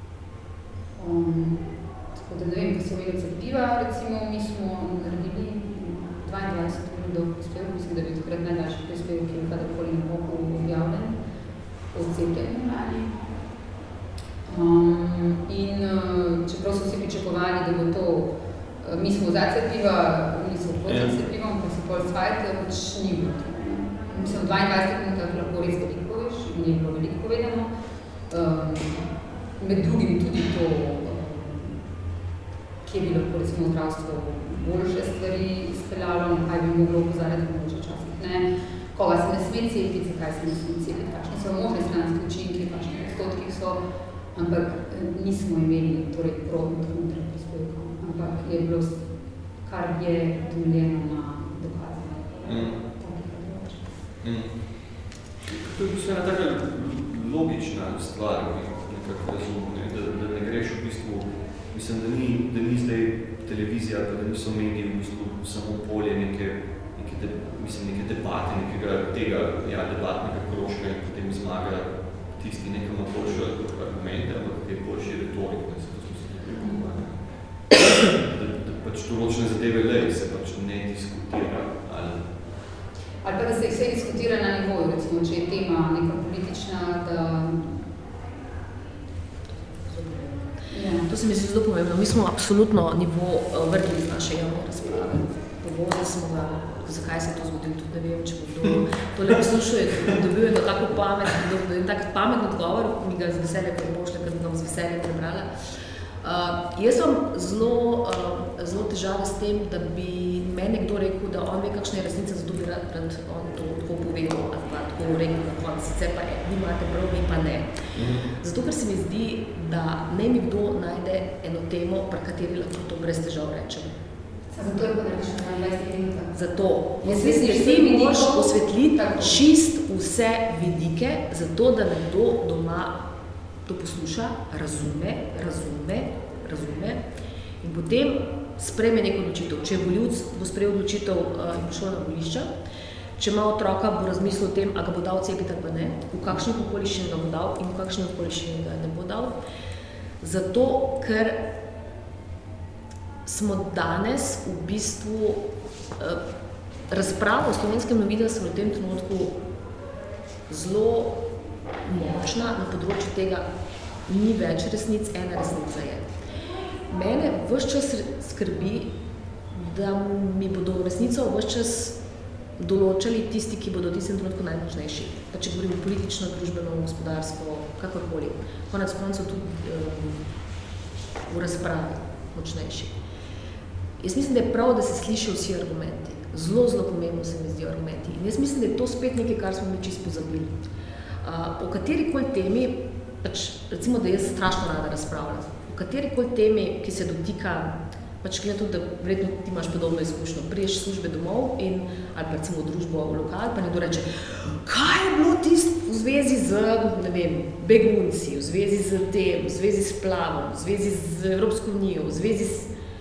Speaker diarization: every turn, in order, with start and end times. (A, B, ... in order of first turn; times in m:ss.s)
0:01.0-0:11.2 A
0:11.9-0:13.1 A
0:14.4-0:27.7 A
0:20.9-0:21.1 B
0:28.3-0:31.8 A
0:32.8-0:43.8 A
0:44.3-0:49.1 A
0:49.6-0:54.0 A
0:52.4-0:52.8 B
0:54.2-0:54.5 B
0:55.4-1:22.3 B
1:16.5-1:16.8 A
1:23.2-1:27.8 A
1:29.8-1:45.5 C
1:30.7-1:31.1 A
1:46.2-1:57.8 C
1:57.9-1:58.3 B
1:58.3-2:04.0 C
2:04.5-2:06.3 A
2:06.3-2:13.0 C
2:07.0-2:09.4 A
2:13.6-2:17.0 C
2:17.6-2:22.5 C
2:23.2-2:29.4 C
2:30.2-2:31.4 C
2:33.2-2:35.4 C
2:36.9-2:39.4 C
2:40.5-2:41.1 C
2:41.8-2:43.4 C
2:44.0-2:46.1 C
2:46.9-2:48.9 C
2:49.5-2:52.0 C
2:52.6-3:00.3 C
3:01.3-3:02.9 C
3:04.0-3:10.5 C
3:11.2-3:32.7 C